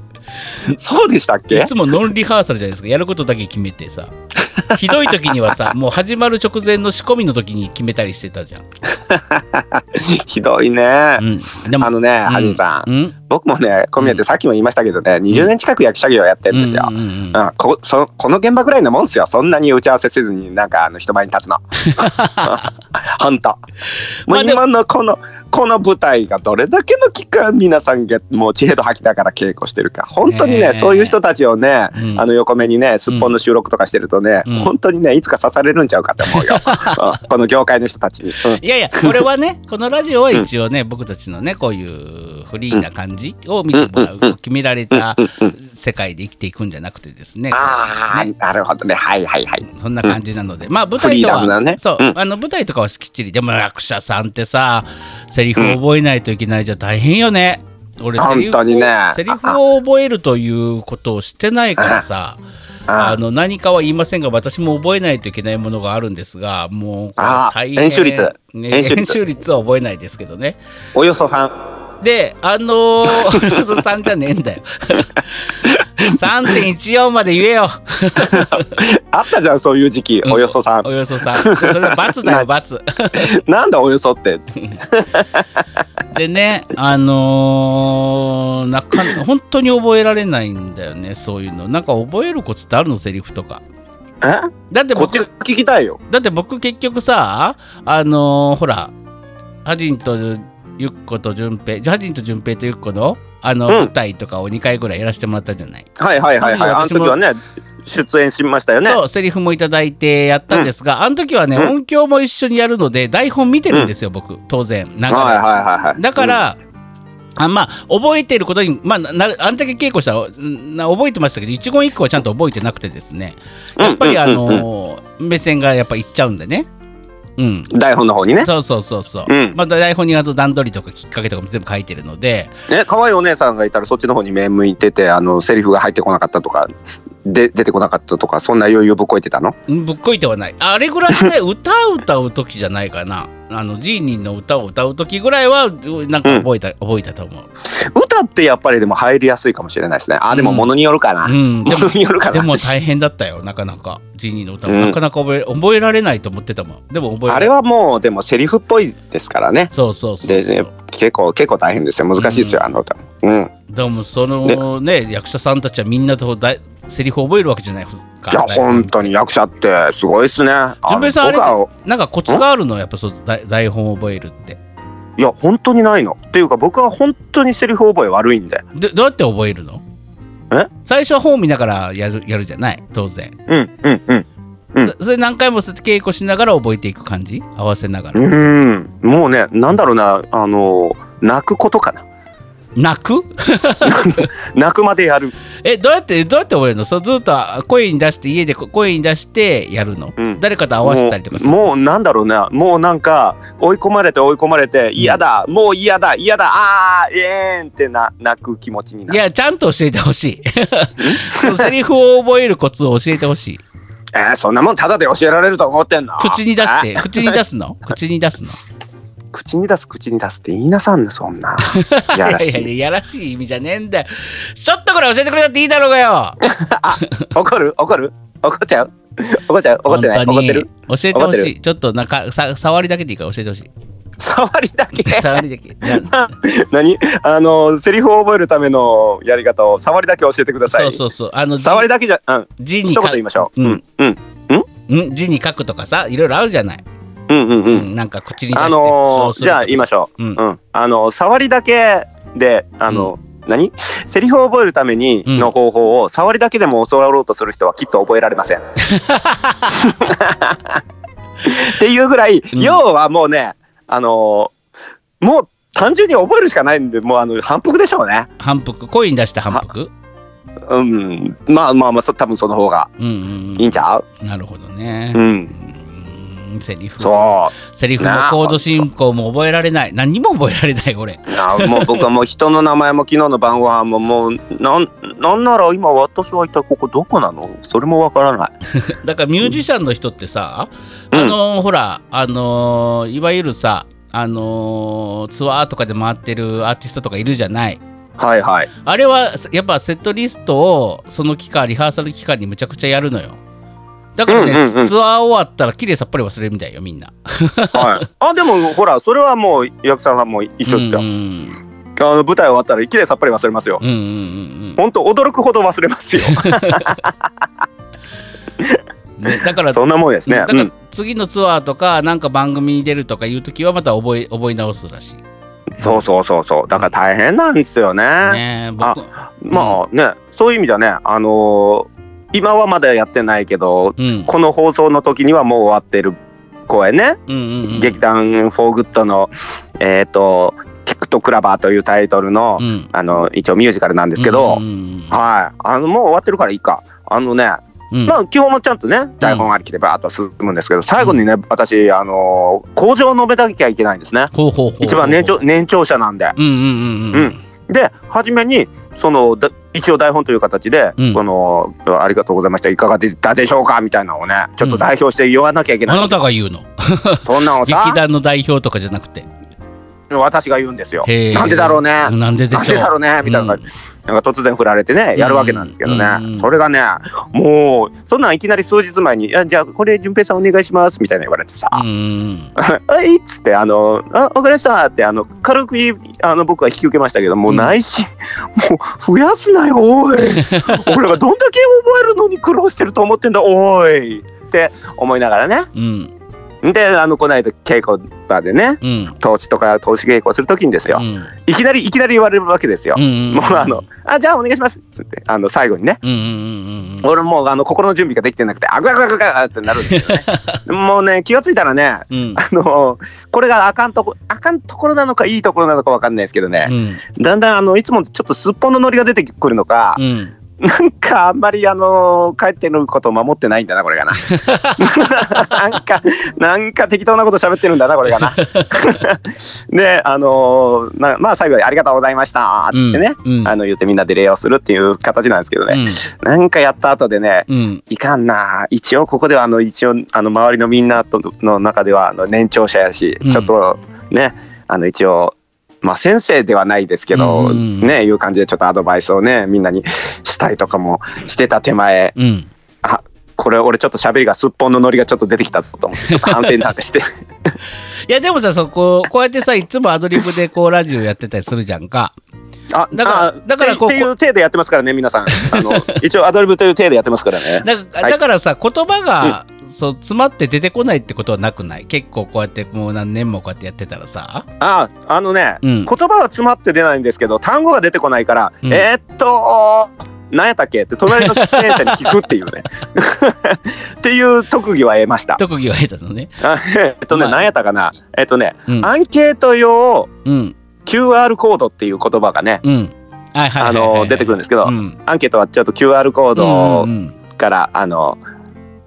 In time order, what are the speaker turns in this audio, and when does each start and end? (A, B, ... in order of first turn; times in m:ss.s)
0:00.7-0:01.7 A
0:01.5-0:04.1 B
0:04.6-0:05.6 A
0:04.7-0:08.6 B
0:08.9-0:11.2 A
0:11.2-0:13.1 B
0:11.8-0:23.6 A
0:16.5-0:17.4 B
0:21.8-0:22.7 B
0:24.3-0:24.6 B
0:24.3-0:39.2 A
0:30.2-0:31.2 B
0:32.0-0:32.2 B
0:33.1-0:33.3 B
0:34.4-0:34.7 B
0:36.2-0:37.2 B
0:38.6-0:48.3 B
0:43.7-0:44.3 A
0:44.9-0:45.5 A
0:47.5-0:50.2 A
0:49.7-1:02.4 B
0:51.0-0:52.1 A
0:58.2-0:59.6 A
1:01.8-1:02.0 A
1:02.9-1:03.2 A
1:03.0-1:10.6 B
1:07.2-1:09.2 A
1:10.9-1:11.5 A
1:12.0-1:18.8 B
1:13.1-1:13.6 A
1:15.7-1:16.1 A
1:18.2-1:22.4 A
1:20.2-1:23.4 B
1:23.2-1:25.6 A
1:26.1-1:33.6 B
1:34.2-1:36.0 A
1:34.7-1:35.3 B
1:36.1-1:38.9 B
1:39.6-1:47.2 B
1:46.0-1:49.0 A
1:48.8-1:56.6 B
1:55.1-1:56.4 A
1:57.4-2:06.7 B
2:03.8-2:04.6 A
2:07.4-2:07.7 B
2:07.7-2:08.5 A
2:08.4-2:12.5 B
2:09.3-2:09.6 A
2:12.7-2:16.7 A
2:17.2-2:19.6 A
2:19.7-2:27.5 B
2:27.7-2:32.7 A
2:30.3-2:30.7 B
2:31.2-2:37.5 B
2:34.7-2:35.0 A
2:37.3-2:39.7 A
2:39.7-2:40.7 B
2:40.2-2:43.5 A
2:42.2-2:42.7 B
2:43.7-2:49.1 B
2:48.3-2:51.7 A
2:50.8-2:54.6 B
2:55.2-2:58.6 A
2:58.7-2:59.8 B
3:00.8-3:03.3 B
3:03.5-3:04.9 A
3:04.8-3:08.4 B
3:08.1-3:12.0 A
3:12.8-3:14.3 B
3:13.8-3:15.3 A
3:15.6-3:21.6 B
3:20.2-3:29.2 A
3:25.0-3:25.2 B
3:29.1-3:33.6 B
3:31.0-3:31.7 A
3:34.1-3:37.4 A
3:36.2-3:38.6 B
3:39.3-3:42.7 A
3:41.6-3:46.4 B
3:46.4-3:51.5 A
3:49.9-3:53.7 B
3:54.2-4:01.0 A
3:55.0-3:56.2 B
4:00.7-4:01.9 B
4:01.6-4:04.7 A
4:02.6-4:03.8 B
4:04.9-4:06.8 B
4:07.3-4:07.9 A
4:07.7-4:10.4 B
4:08.5-4:18.6 A
4:15.3-4:15.5 B
4:18.9-4:19.9 B
4:19.7-4:20.8 A
4:21.4-4:24.5 A
4:22.5-4:22.8 B
4:25.2-4:28.3 A
4:28.4-4:29.9 B
4:30.6-4:32.9 A
4:33.0-4:42.0 B
4:33.6-4:34.0 A
4:35.1-4:35.5 A
4:37.0-4:38.8 A
4:41.3-4:48.5 A
4:48.8-4:57.8 B
4:58.2-4:58.7 A
4:58.8-5:03.4 B
5:04.2-5:08.0 B
5:04.3-5:04.9 A
5:07.7-5:11.0 A
5:10.7-5:11.6 B
5:12.0-5:13.8 A
5:13.8-5:14.8 B
5:14.8-5:17.3 A
5:16.2-5:17.0 B
5:18.6-5:20.7 A
5:19.2-5:25.2 B
5:25.7-5:36.1 A
5:28.2-5:29.8 B
5:34.0-5:34.3 B
5:36.7-5:56.4 A
5:37.3-5:38.0 B
5:42.6-5:42.9 B
5:44.2-5:45.2 B
5:47.9-5:48.2 B
5:49.2-5:49.5 B
5:54.3-5:55.4 B
5:56.4-5:57.4 B
5:57.1-6:06.2 A
6:05.8-6:09.3 B
6:07.2-6:08.0 A
6:10.1-6:21.8 A
6:11.0-6:13.6 B
6:15.2-6:16.5 B
6:21.7-6:22.5 B
6:22.6-6:35.7 A
6:27.5-6:27.8 B
6:30.3-6:31.0 B
6:35.7-6:36.1 B
6:36.6-6:46.0 A
6:38.8-6:39.1 B
6:40.9-6:41.3 B
6:42.9-6:43.8 B
6:46.0-6:47.1 B
6:47.0-7:00.0 A
6:49.8-6:50.6 B
6:52.1-6:52.4 B
6:56.6-6:57.0 B
7:00.0-7:00.3 B
7:00.6-7:32.1 A
7:04.2-7:05.8 B
7:08.1-7:09.0 B
7:12.7-7:13.5 B
7:15.7-7:16.0 B
7:17.5-7:17.8 B
7:23.2-7:23.5 B
7:27.1-7:27.9 B
7:32.2-7:32.5 B
7:32.8-7:37.0 A
7:36.1-7:36.6 B
7:38.1-7:42.1 B
7:42.7-7:48.2 A
7:42.9-7:44.1 B
7:45.3-7:46.0 B
7:47.6-7:54.4 B
7:54.6-8:05.4 A
7:55.6-7:55.9 B
8:01.1-8:02.3 B
8:05.4-8:06.3 B
8:06.4-8:10.1 A
8:07.1-8:07.4 B
8:10.2-8:10.5 B
8:10.8-8:12.6 A
8:12.6-8:15.0 B
8:13.6-8:18.2 A
8:16.4-8:17.2 B